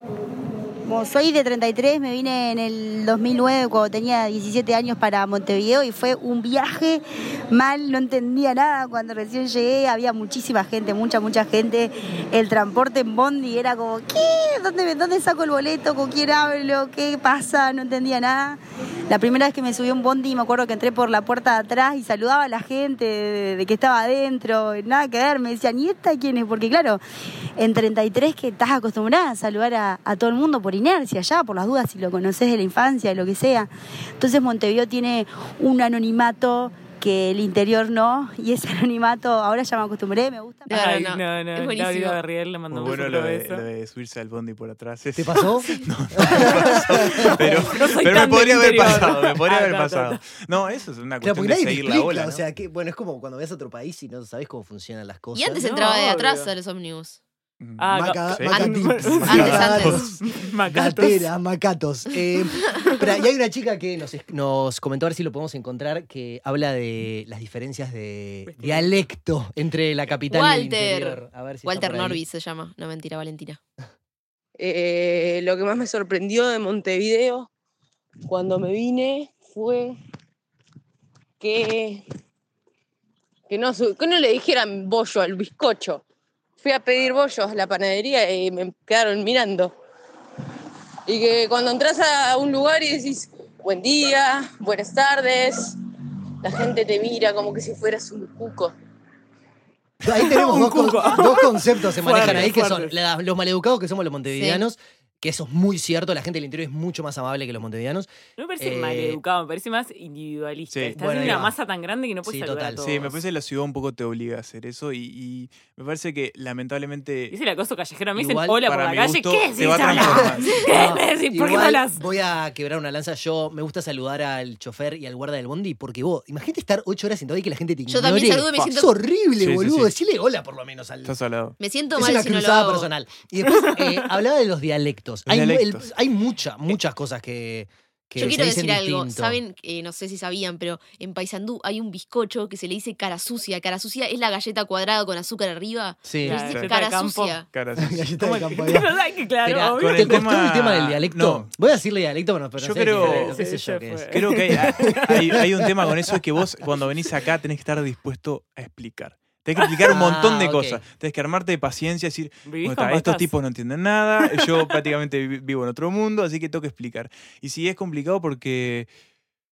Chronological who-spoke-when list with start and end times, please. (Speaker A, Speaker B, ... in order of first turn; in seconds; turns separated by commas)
Speaker A: 0.8-27.0, Speaker A: 27.6-40.7, Speaker B: 40.6-42.2, Speaker C: 40.7-43.6, Speaker D: 42.7-52.4, Speaker E: 45.1-47.6, Speaker C: 47.6-50.2, Speaker E: 51.2-55.6, Speaker B: 55.3-57.2, Speaker C: 55.6-56.5, Speaker D: 57.6-60.0, Speaker C: 57.8-61.3, Speaker E: 57.9-72.2, Speaker B: 58.5-60.0, Speaker C: 68.5-69.0, Speaker B: 70.3-73.6, Speaker F: 74.6-77.5, Speaker F: 78.2-80.0, Speaker F: 81.4-82.0, Speaker F: 83.5-86.0, Speaker F: 86.6-89.8, Speaker F: 91.1-95.8, Speaker F: 96.4-98.7, Speaker E: 100.0-109.2, Speaker C: 100.2-102.9, Speaker D: 102.2-102.5, Speaker B: 104.3-104.6, Speaker C: 108.4-113.1, Speaker D: 110.7-111.4, Speaker E: 110.9-111.5, Speaker E: 112.2-113.2, Speaker D: 112.8-117.3, Speaker C: 117.3-122.0, Speaker E: 118.2-118.6, Speaker D: 118.7-120.5, Speaker E: 119.8-131.1, Speaker B: 127.9-128.9, Speaker D: 129.4-129.9, Speaker D: 131.1-131.6, Speaker B: 131.6-132.9, Speaker E: 131.9-139.4, Speaker D: 135.3-135.9, Speaker B: 138.2-147.5, Speaker E: 146.0-146.4, Speaker C: 146.2-147.4, Speaker D: 146.3-146.7, Speaker D: 147.5-148.1, Speaker E: 147.8-148.9, Speaker C: 148.2-150.2, Speaker E: 149.4-156.1, Speaker D: 149.8-151.5, Speaker D: 152.6-153.4, Speaker C: 153.0-155.4, Speaker D: 154.1-168.9, Speaker E: 159.8-160.8, Speaker C: 162.4-163.3, Speaker C: 164.4-164.7